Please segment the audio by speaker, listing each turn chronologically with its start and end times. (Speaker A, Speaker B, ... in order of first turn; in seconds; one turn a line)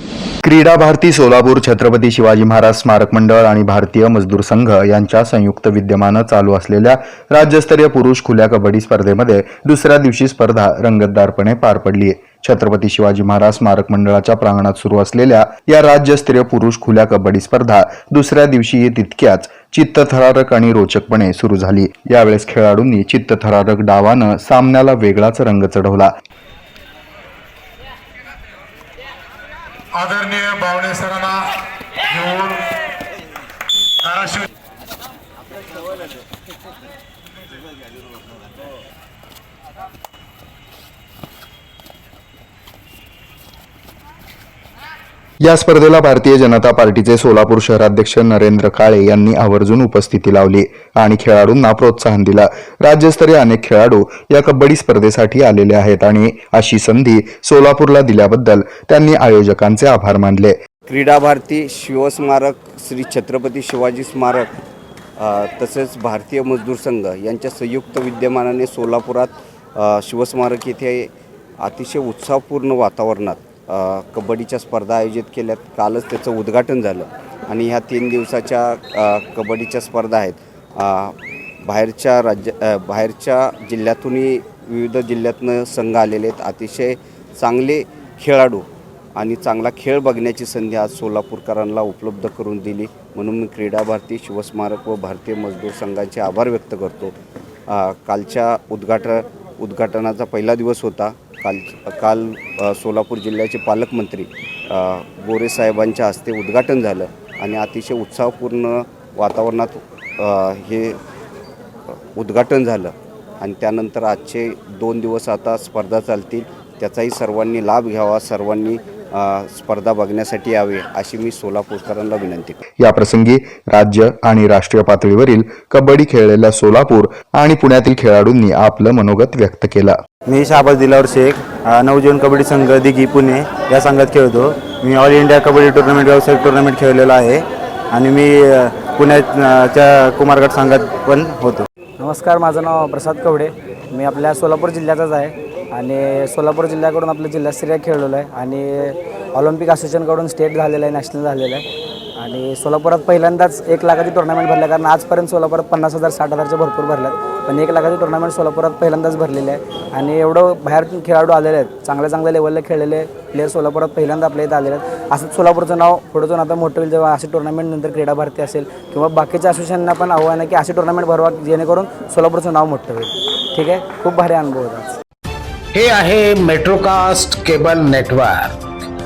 Speaker A: 0.4-26.1
Speaker B: 30.0-31.5
Speaker B: 32.1-32.6
Speaker B: 34.0-34.4
Speaker A: 45.4-60.6
Speaker C: 60.9-64.5
Speaker C: 65.2-97.1
Speaker C: 97.7-111.0
Speaker C: 111.9-122.6
Speaker A: 122.8-130.0
Speaker D: 130.2-141.7
Speaker E: 142.0-151.6
Speaker E: 152.2-175.0
Speaker F: 175.7-178.6